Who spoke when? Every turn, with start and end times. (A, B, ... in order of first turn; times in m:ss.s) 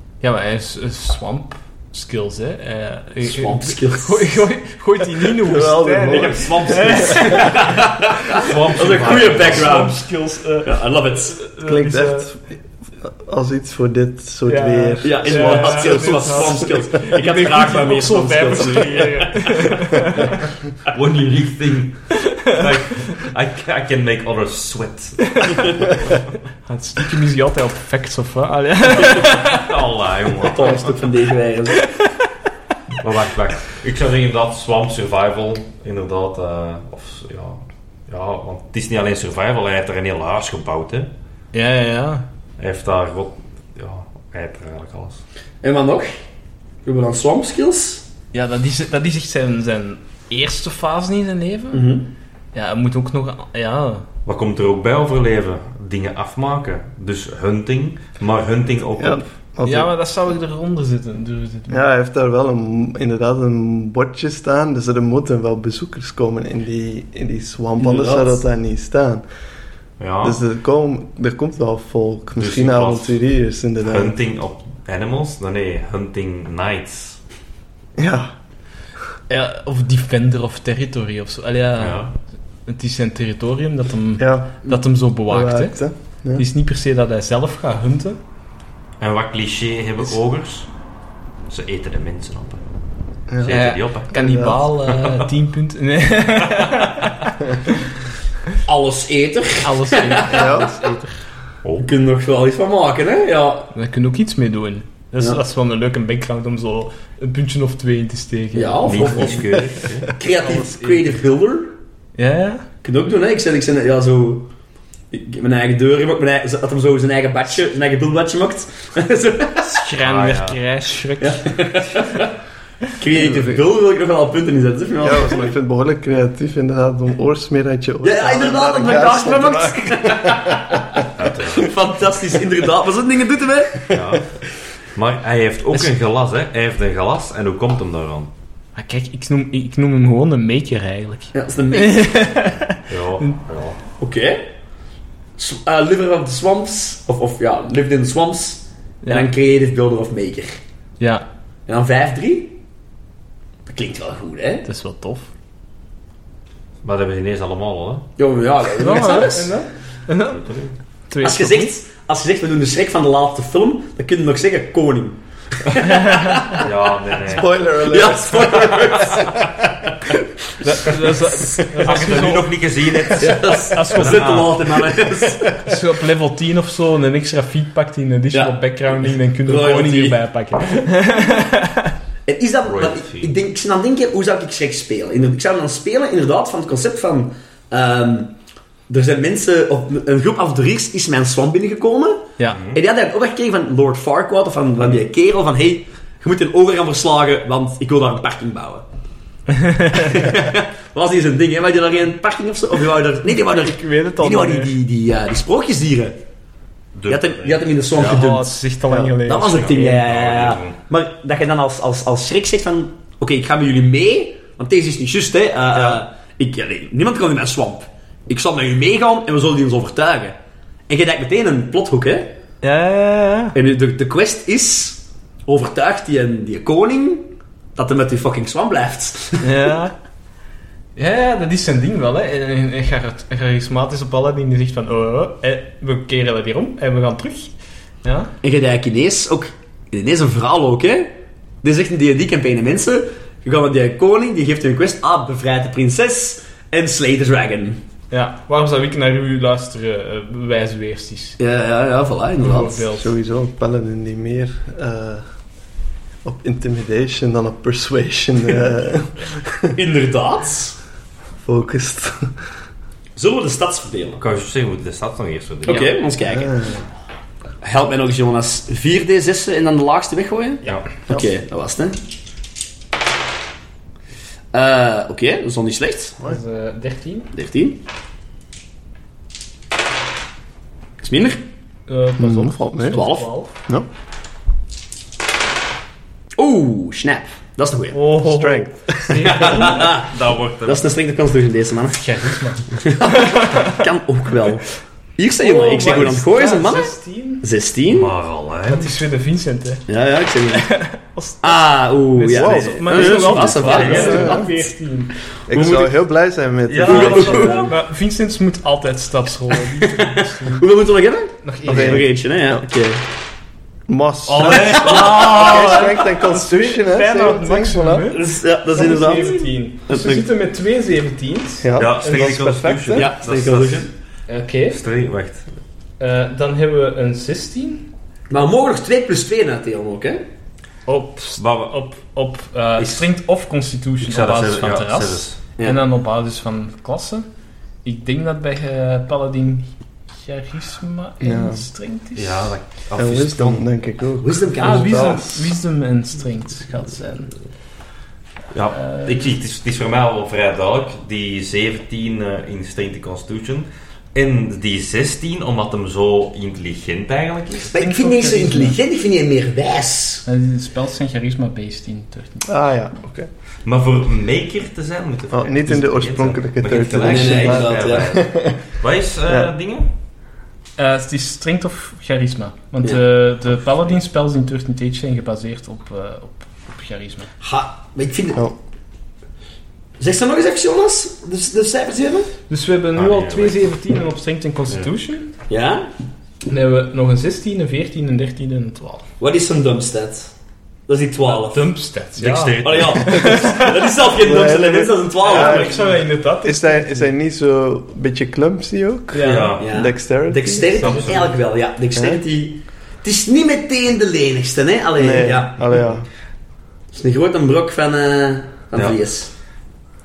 0:00.2-0:07.7 A
0:03.2-0:04.4 B
0:05.4-0:07.4 C
0:06.0-0:10.0 B
0:08.3-0:09.9 D
0:08.4-0:12.3 A
0:10.6-0:11.4 B
0:11.6-0:12.5 C
0:13.0-0:16.7 C
0:14.5-0:20.4 A
0:15.0-0:19.7 B
0:20.9-0:26.2 D
0:25.3-0:25.7 A
0:26.6-0:29.6 A
0:29.0-0:31.0 D
0:30.4-0:31.8 B
0:31.8-0:32.1 A
0:33.0-0:41.1 D
0:41.5-0:42.2 A
0:42.6-0:45.2 D
0:45.6-0:46.2 B
0:46.8-0:48.0 B
0:48.3-0:51.9 A
0:51.7-0:52.1 B
0:52.5-0:54.0 A
0:54.2-0:59.3 D
0:59.0-0:59.9 C
0:59.6-1:01.8 A
1:01.7-1:09.2 C
1:07.8-1:08.4 B
1:10.0-1:10.4 D
1:10.2-1:14.2 C
1:12.4-1:13.2 D
1:13.8-1:17.2 D
1:18.0-1:18.3 C
1:19.3-1:22.0 A
1:21.8-1:22.1 D
1:22.7-1:25.8 A
1:24.2-1:24.6 C
1:25.3-1:26.4 C
1:26.3-1:28.2 A
1:29.0-1:30.7 D
1:31.5-1:32.6 D
1:33.3-1:33.6 C
1:33.4-1:34.1 D
1:33.5-1:37.7 A
1:34.1-1:34.6 C
1:34.8-1:35.3 D
1:38.6-1:40.7 B
1:39.6-1:41.2 A
1:40.3-1:40.7 C
1:41.8-1:43.7 B
1:43.7-1:49.4 A
1:48.5-1:51.7 B
1:48.8-1:50.1 D
1:49.6-1:50.1 C
1:50.4-1:51.2 A
1:52.2-1:52.6 A
1:52.8-1:54.5 B
1:55.1-1:59.8 B
1:59.6-2:01.5 A
2:00.0-2:00.6 D
2:01.2-2:02.3 B
2:03.0-2:05.5 B
2:05.0-2:11.0 C
2:08.0-2:13.9 B
2:11.2-2:11.7 D
2:13.9-2:14.2 D
2:14.9-2:18.3 D
2:18.7-2:23.3 A
2:21.3-2:22.1 B
2:22.9-2:23.8 D
2:24.0-2:24.5 B
2:25.4-2:30.6 B
2:29.0-2:29.3 A
2:31.0-2:31.2 A
2:31.7-2:32.6 B
2:33.6-2:34.6 B
2:34.6-2:35.3 A
2:36.8-2:38.1 D
2:38.2-2:39.5 B
2:38.8-2:40.5 A
2:40.3-2:40.7 D
2:41.1-2:41.7 A
2:41.2-2:46.7 B
2:45.8-2:46.4 A
2:46.5-2:47.5 D
2:47.3-2:49.4 C
2:47.4-2:51.6 B
2:50.6-2:54.4 A
2:51.6-2:55.0 D
2:53.2-2:55.7 B
2:55.6-3:01.9 A
2:59.4-3:00.2 B
3:02.2-3:08.3 B
3:02.6-3:03.3 D
3:08.9-3:18.8 B
3:12.5-3:12.8 D
3:19.5-3:20.2 A
3:19.9-3:26.2 B
3:23.3-3:24.7 A
3:26.9-3:28.2 D
3:27.1-3:28.6 B
3:28.0-3:30.0 A
3:28.9-3:29.1 C
3:29.2-3:40.4 B
3:29.4-3:30.8 D
3:35.7-3:36.0 D
3:40.9-3:42.3 B
3:42.6-3:43.6 A
3:43.5-3:49.5 B
3:49.4-3:49.9 A
3:51.0-3:58.3 A
3:58.4-4:07.8 B
4:08.1-4:11.4 A
4:11.4-4:12.8 B
4:12.4-4:13.1 A
4:12.9-4:15.2 C
4:16.2-4:19.8 C
4:19.7-4:20.8 B
4:21.4-4:22.3 C
4:23.2-4:24.2 B
4:24.2-4:25.9 D
4:25.6-4:26.7 B
4:26.3-4:26.8 C
4:27.6-4:32.0 B
4:34.5-4:36.2 B
4:36.2-4:37.3 A
4:37.3-4:37.8 B
4:41.0-4:41.4 B
4:41.9-4:43.5 A
4:42.2-4:43.0 C
4:42.9-4:43.3 B
4:46.4-4:48.0 B
4:47.9-4:49.9 A
4:48.2-4:49.5 C
4:49.2-4:52.1 B
4:49.6-4:50.9 D
4:51.9-4:53.8 A
4:52.8-4:58.1 B
4:55.4-4:57.4 A
4:57.9-4:59.0 D
4:58.7-4:59.8 A
4:59.9-5:00.7 B
5:00.5-5:05.1 A
5:01.4-5:04.6 B
5:02.3-5:04.5 C
5:03.1-5:04.3 D
5:05.5-5:05.9 B
5:05.5-5:07.7 C
5:06.7-5:07.7 D
5:06.8-5:07.7 B
5:06.9-5:10.6 A
5:09.8-5:13.0 B
5:11.4-5:12.1 A
5:11.6-5:12.6 C
5:13.9-5:18.1 C
5:14.3-5:15.8 D
5:14.4-5:15.8 B
5:14.5-5:21.9 A
5:18.1-5:20.2 B
5:21.6-5:23.1 C
5:21.8-5:23.9 D
5:22.9-5:23.9 B
5:24.3-5:24.8 A
5:24.7-5:25.4 D
5:26.0-5:27.9 A
5:28.3-5:30.2 B
5:30.9-5:37.3 A
5:31.4-5:31.8 D
5:32.8-5:33.0 B
5:34.0-5:35.4 D
5:37.8-5:42.5 A
5:41.2-5:41.6 C
5:42.1-5:43.6 D
5:43.0-5:45.4 C
5:44.2-5:45.2 B
5:44.6-5:47.3 A
5:48.5-5:57.7 D
5:48.7-5:49.2 A
5:57.7-6:00.2 B
5:57.7-5:58.8 A
6:00.2-6:02.5 A
6:02.4-6:03.3 C
6:03.6-6:09.9 D
6:05.3-6:08.6 C
6:07.0-6:08.1 B
6:10.8-6:17.3 A
6:17.4-6:18.5 B
6:20.0-6:22.3 B
6:22.5-6:25.3 A
6:23.0-6:23.7 D
6:25.5-6:25.9 B
6:26.5-6:29.1 A
6:29.2-6:30.3 B
6:30.9-6:31.7 B
6:31.2-6:33.7 A
6:32.2-6:33.4 D
6:32.6-6:35.8 B
6:34.2-6:35.9 C
6:35.2-6:37.1 A
6:36.4-6:41.0 C
6:39.1-6:39.6 A
6:39.2-6:39.7 D
6:39.6-6:45.8 B
6:40.8-6:41.3 D
6:41.9-6:42.2 C
6:45.0-6:46.0 C
6:46.9-6:49.3 B